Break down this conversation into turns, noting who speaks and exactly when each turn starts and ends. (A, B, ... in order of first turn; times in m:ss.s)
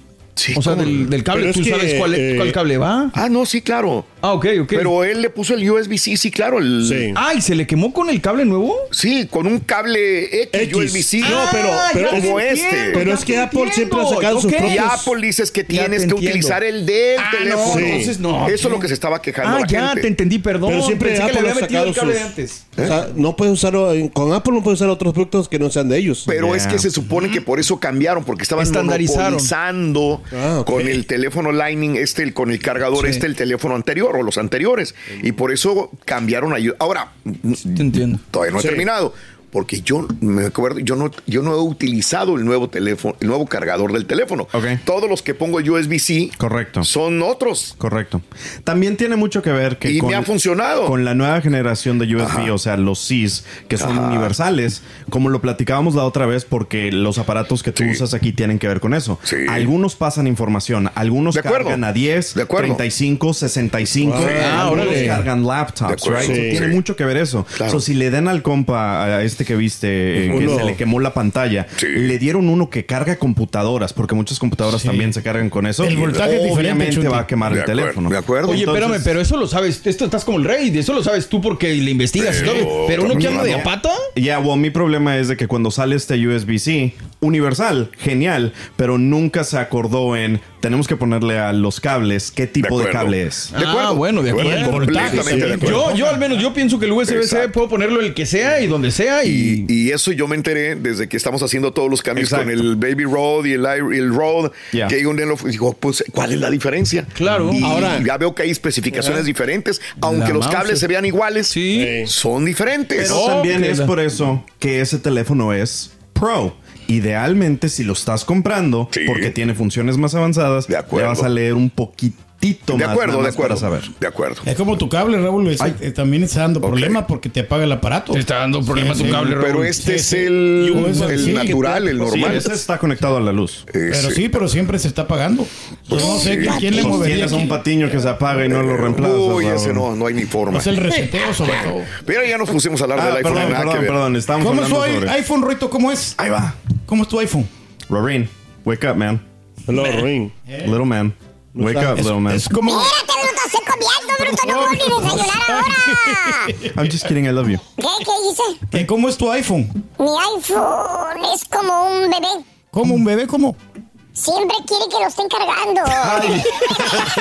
0:00.4-0:01.1 A
0:00.5-0:03.1 B
0:01.2-0:02.6 C
0:03.1-0:04.1 A
0:04.2-0:04.9 B
0:04.7-0:07.1 A
0:06.8-0:07.2 C
0:07.1-0:08.8 B
0:08.9-0:13.1 A
0:10.5-0:15.1 C
0:11.2-0:15.0 B
0:14.6-0:20.1 A
0:15.7-0:16.6 B
0:17.2-0:18.9 B
0:17.6-0:18.3 C
0:19.4-0:22.7 B
0:20.6-0:26.3 C
0:22.8-0:23.0 A
0:26.3-0:47.8 A
0:26.3-0:26.9 D
0:28.6-0:29.5 B
0:30.3-0:31.0 C
0:33.0-0:33.2 B
0:37.7-0:38.2 B
0:38.6-0:38.8 C
0:44.5-0:44.8 D
0:46.4-0:46.9 D
0:47.8-0:50.3 D
0:49.8-0:51.0 A
0:50.8-1:19.2 D
0:52.2-0:52.5 A
0:53.8-0:54.3 A
0:59.2-0:59.7 A
1:01.3-1:02.8 A
1:04.0-1:05.1 C
1:04.2-1:05.3 B
1:05.8-1:06.8 A
1:06.2-1:06.6 C
1:07.6-1:07.8 A
1:10.3-1:10.8 C
1:10.3-1:10.6 A
1:11.8-1:12.1 A
1:15.8-1:17.3 E
1:17.5-1:18.7 A
1:18.5-1:24.0 B
1:22.2-1:23.7 A
1:23.0-1:33.5 D
1:32.6-1:36.0 A
1:33.5-1:39.7 B
1:34.4-1:36.3 E
1:35.2-1:36.0 C
1:37.0-1:37.6 A
1:39.2-1:53.3 A
1:42.2-1:42.7 D
1:47.2-1:47.9 B
1:47.6-1:48.1 C
1:50.0-1:50.9 B
1:51.5-1:52.0 B
1:51.7-1:52.1 C
1:53.0-2:03.9 D
1:53.0-1:53.9 B
1:58.9-1:59.3 A
2:00.7-2:01.3 A
2:02.7-2:04.4 A
2:04.4-2:11.6 E
2:06.6-2:07.0 A
2:08.1-2:09.7 B
2:08.8-2:12.6 A
2:10.6-2:12.4 C
2:12.0-2:13.6 D
2:13.7-2:14.4 A
2:13.9-2:17.6 E
2:15.9-2:17.2 A
2:16.4-2:19.9 D
2:18.4-2:24.0 A
2:20.5-2:21.9 E
2:22.9-2:25.2 D
2:23.3-2:23.6 E
2:24.4-2:26.2 E
2:26.2-2:26.6 D
2:26.9-2:27.5 E
2:27.9-2:29.2 D
2:29.7-2:30.4 C
2:30.5-2:30.7 E
2:30.6-2:32.6 D
2:31.6-2:32.0 C
2:32.0-2:32.9 E
2:32.6-2:36.5 F
2:34.2-2:36.6 E
2:36.7-2:37.6 D
2:37.8-2:38.6 F
2:38.7-2:39.7 E
2:40.0-2:42.4 F
2:42.7-2:43.6 E
2:44.2-2:46.9 F